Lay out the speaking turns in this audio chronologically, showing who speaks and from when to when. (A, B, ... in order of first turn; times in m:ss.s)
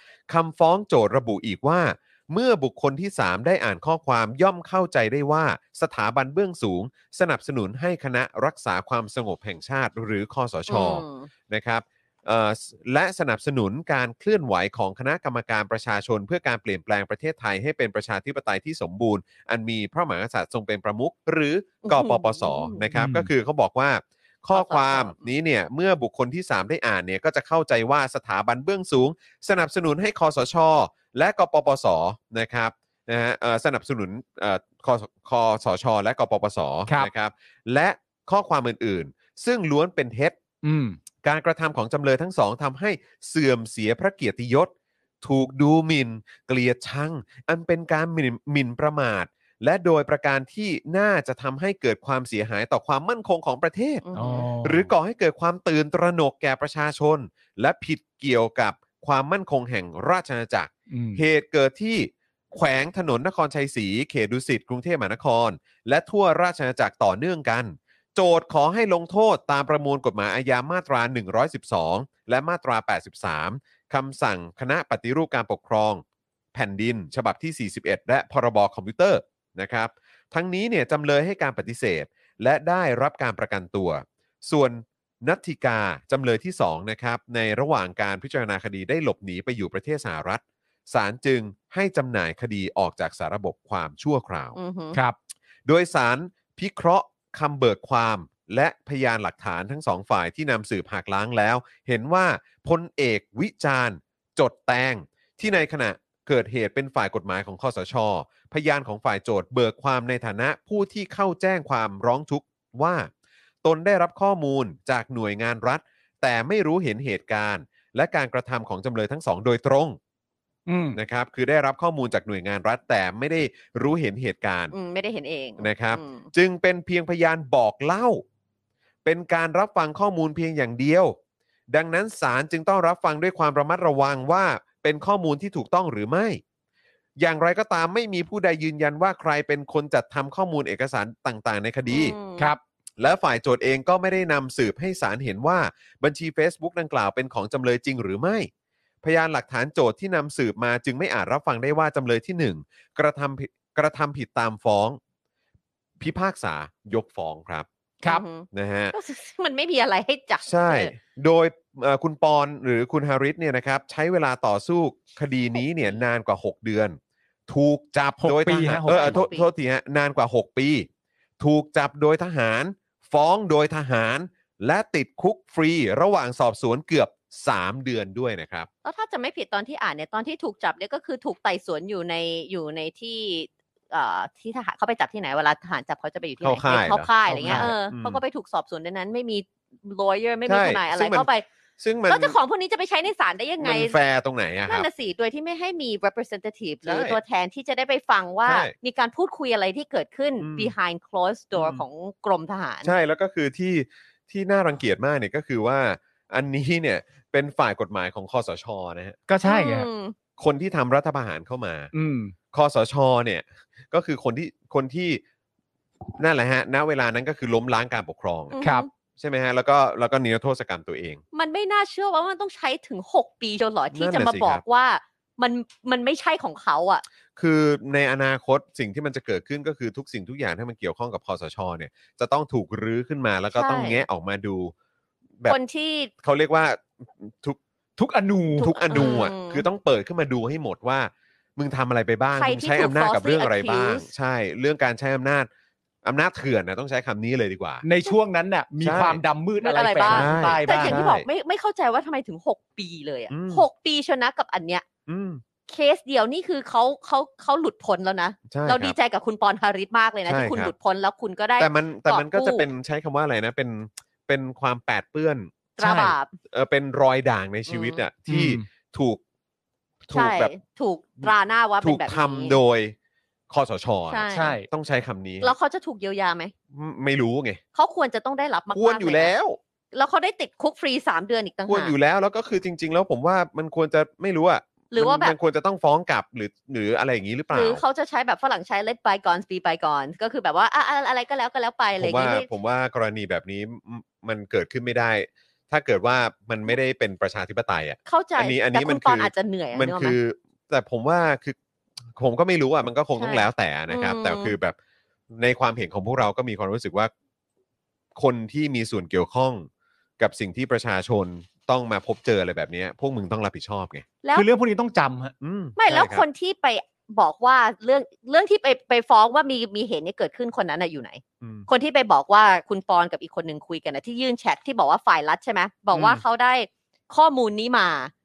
0:00.3-0:40.4 A
0:10.7-0:11.3 B
0:21.8-0:22.8 B
0:22.9-0:23.3 C
0:24.5-0:25.3 B
0:40.6-0:41.0 C
0:41.2-0:54.0 A
0:54.0-0:54.5 B
0:54.1-0:54.9 C
0:54.6-1:16.0 A
1:00.9-1:01.2 C
1:16.5-1:34.6 A
1:34.6-1:35.0 B
1:35.6-1:53.1 A
1:53.6-2:00.0 A
2:00.7-2:01.0 C
2:00.9-2:04.7 A
2:04.7-2:06.3 B
2:05.6-2:08.2 A
2:09.0-2:11.2 A
2:11.7-2:16.4 A
2:17.2-2:22.2 A
2:21.9-2:22.5 B
2:23.0-2:28.5 A
2:29.0-2:35.0 A
2:36.0-2:37.7 A
2:38.0-2:40.9 B
2:38.5-2:38.9 A
2:40.4-2:50.9 A
2:48.2-2:49.2 C
2:48.9-2:49.5 B
2:51.4-2:58.7 A
2:58.8-3:11.4 B
3:06.4-3:08.2 A
3:07.3-3:07.7 C
3:10.4-3:11.3 A
3:11.8-3:12.4 A
3:12.1-3:14.0 B
3:13.6-3:14.9 A
3:14.7-3:22.9 B
3:16.8-3:17.2 A
3:18.4-3:18.7 A
3:20.4-3:20.7 A
3:21.6-3:21.8 A
3:22.8-3:29.2 A
3:29.3-3:29.9 C
3:29.4-3:30.1 B
3:30.4-3:31.9 A
3:31.9-3:32.3 C
3:32.5-3:35.2 A
3:36.2-3:38.6 A
3:38.5-3:38.9 B
3:39.2-3:41.2 A
3:41.3-3:47.0 B
3:43.9-3:44.6 A
3:47.4-3:54.7 A
3:53.5-3:54.0 B
3:55.5-3:56.1 B
3:56.2-3:57.6 A
3:58.0-3:59.2 C
3:58.6-3:59.6 B
3:58.6-4:05.5 A
4:02.4-4:04.0 B
4:06.0-4:07.8 A
4:07.8-4:11.0 C
4:08.8-4:09.2 A
4:09.6-4:14.8 B
4:10.0-4:11.2 A
4:13.3-4:13.6 A
4:15.1-4:15.4 A
4:15.7-4:22.7 B
4:18.5-4:18.9 A
4:20.3-4:20.7 A
4:21.6-4:25.5 A
4:25.8-4:26.3 B
4:25.8-4:26.1 C
4:26.5-4:29.2 A
4:27.7-4:28.0 B
4:28.3-4:28.6 C
4:30.0-4:30.5 A
4:30.1-4:32.6 B
4:31.8-4:32.9 A
4:33.5-4:35.5 A
4:34.1-4:34.6 B
4:34.3-4:34.7 C
4:35.4-4:36.5 B
4:36.7-4:37.6 A
4:37.7-4:39.3 B
4:38.7-4:39.6 A
4:39.9-4:41.9 B
4:41.7-4:47.8 A
4:44.9-4:45.3 B
4:47.5-4:52.5 B
4:52.0-5:01.6 A
4:58.0-5:00.2 B
5:02.2-5:04.8 A
5:03.2-5:04.5 B
5:05.3-5:07.1 A
5:08.1-5:09.7 A
5:10.2-5:14.0 A
5:14.3-5:15.3 C
5:15.4-5:16.2 A
5:15.8-5:28.1 B
5:21.4-5:21.7 A
5:25.9-5:26.2 A